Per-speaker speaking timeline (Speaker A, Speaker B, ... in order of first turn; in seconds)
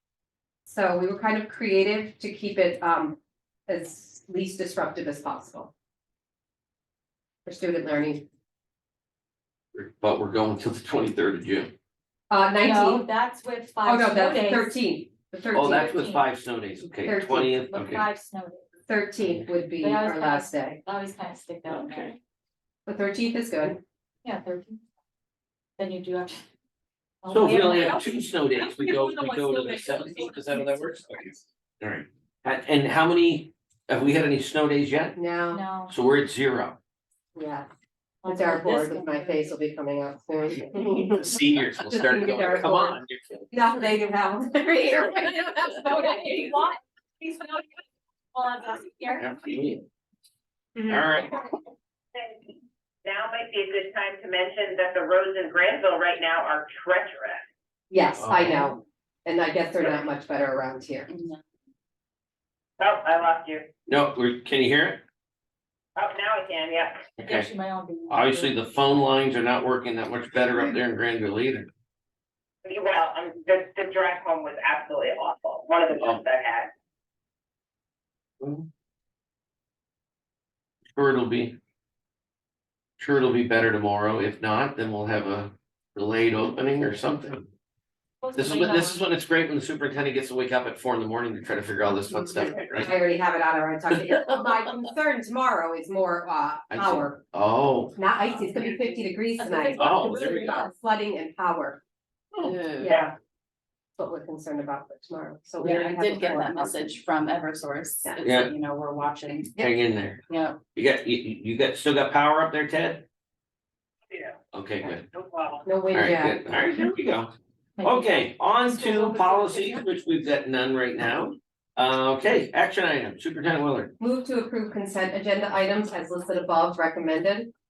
Speaker A: 0.7-5.7, 7.5-8.2, 12.3-13.1, 13.8-16.0, 17.1-17.6, 18.9-20.8, 22.9-23.8, 35.2-35.6, 37.4-37.7, 38.2-43.0, 43.5-46.6, 50.8-51.0, 57.9-61.1, 92.1-97.2, 98.0-101.8, 102.5-103.1, 104.0-107.0, 115.7-116.5, 124.0-127.5
Speaker B: 9.7-11.7, 15.5-18.1, 21.7-22.1, 27.3-35.2, 35.9-36.8, 41.0-43.5, 49.2-49.9, 50.9-51.4, 58.2-58.8, 63.9-65.0, 67.2-67.5, 68.1-71.7, 78.4-78.7, 80.9-81.6, 83.0-87.5, 88.3-92.9, 93.9-94.6, 96.7-98.0, 99.8-100.6, 108.2-108.5, 109.6-110.2, 110.8-113.1, 114.5-115.0, 115.9-123.9
Speaker C: 12.6-14.7, 15.7-16.2, 17.7-18.6, 19.8-22.1, 24.2-24.8, 25.8-26.4, 27.2-31.0, 35.5-35.9, 38.2-39.5, 45.7-47.8, 48.3-49.4, 67.2-68.6, 88.2-89.0, 98.6-100.7, 117.8-119.8
Speaker D: 52.1-52.5, 53.0-57.4, 62.8-63.6, 66.0-67.1, 72.6-76.7, 114.1-114.4, 115.1-115.6
Speaker E: 61.1-61.4, 102.4-102.9, 105.6-109.8, 110.3-110.6